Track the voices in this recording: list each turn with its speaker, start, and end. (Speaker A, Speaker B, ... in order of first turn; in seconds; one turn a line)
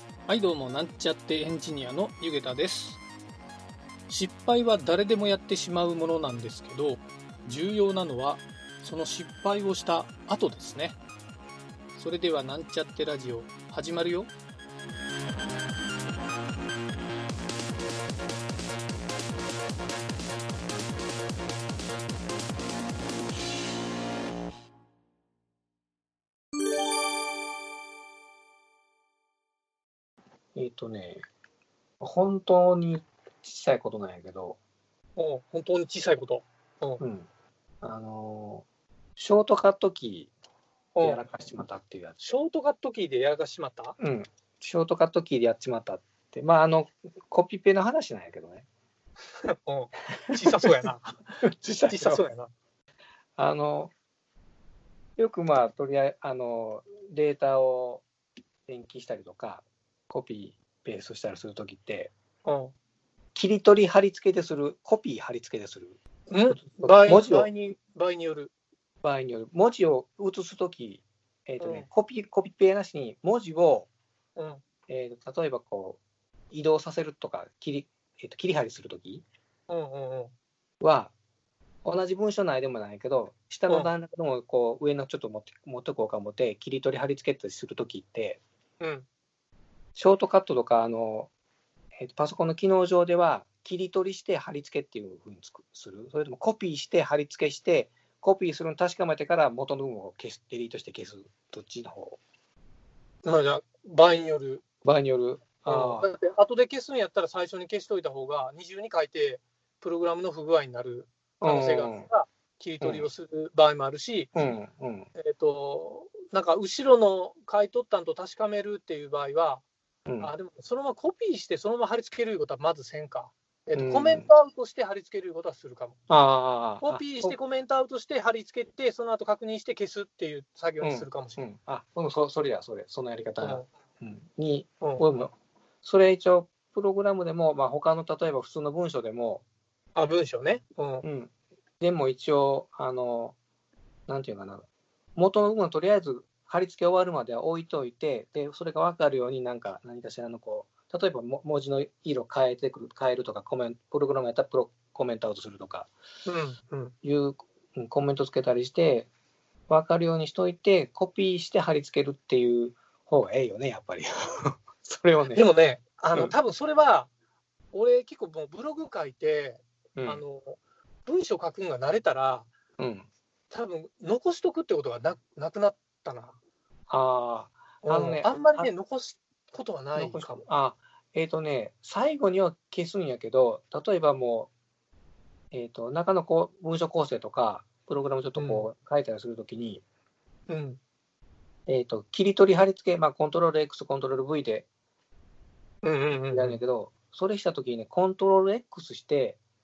Speaker A: 0.3-3.0
Speaker A: 4.1-11.0
Speaker A: 11.9-14.3
Speaker B: 30.6-31.2
Speaker B: 32.0-34.6
Speaker A: 35.2-37.0
Speaker B: 37.0-37.3
Speaker B: 37.8-38.6
Speaker B: 39.2-40.3
Speaker A: 41.0-41.2
Speaker B: 41.0-42.2
Speaker A: 42.2-44.0
Speaker B: 44.0-48.6
Speaker A: 49.4-51.2
Speaker B: 50.4-50.9
Speaker B: 51.4-52.2
Speaker A: 51.9-52.5
Speaker B: 53.4-53.9
Speaker B: 55.2-58.0
Speaker B: 58.7-62.1
Speaker A: 62.4-62.7
Speaker B: 63.4-66.0
Speaker A: 66.3-68.5
Speaker B: 66.5-67.5
Speaker B: 69.0-73.9
Speaker A: 71.6-71.9
Speaker A: 74.4-74.6
Speaker B: 74.9-76.0
Speaker B: 76.5-79.2
Speaker A: 79.7-80.3
Speaker B: 80.8-81.1
Speaker B: 81.8-88.4
Speaker A: 88.8-89.1
Speaker B: 90.0-91.3
Speaker B: 92.0-102.2
Speaker A: 103.2-104.6
Speaker B: 104.8-106.1
Speaker A: 105.7-114.5
Speaker B: 111.4-112.1
Speaker B: 112.8-113.1
Speaker B: 114.3-115.1
Speaker A: 115.2-119.6
Speaker B: 120.1-120.3
Speaker A: 120.2-126.0
Speaker B: 123.8-124.3
Speaker B: 126.1-127.4
Speaker A: 126.8-131.4
Speaker B: 130.8-139.4
Speaker A: 133.4-133.7
Speaker A: 134.8-135.1
Speaker A: 139.9-141.1
Speaker B: 141.0-143.4
Speaker B: 144.1-144.7
Speaker B: 145.2-155.9
Speaker A: 156.3-156.9
Speaker B: 157.0-159.1
Speaker B: 159.7-165.5
Speaker A: 165.3-167.1
Speaker A: 167.7-172.5
Speaker B: 170.0-170.2
Speaker B: 172.8-173.1
Speaker A: 173.5-176.4
Speaker B: 176.9-178.7
Speaker A: 177.8-180.4
Speaker B: 179.9-184.5
Speaker B: 185.5-189.8
Speaker A: 188.4-188.7
Speaker A: 190.5-190.8
Speaker B: 191.7-194.7
Speaker A: 195.8-196.6
Speaker B: 196.3-199.4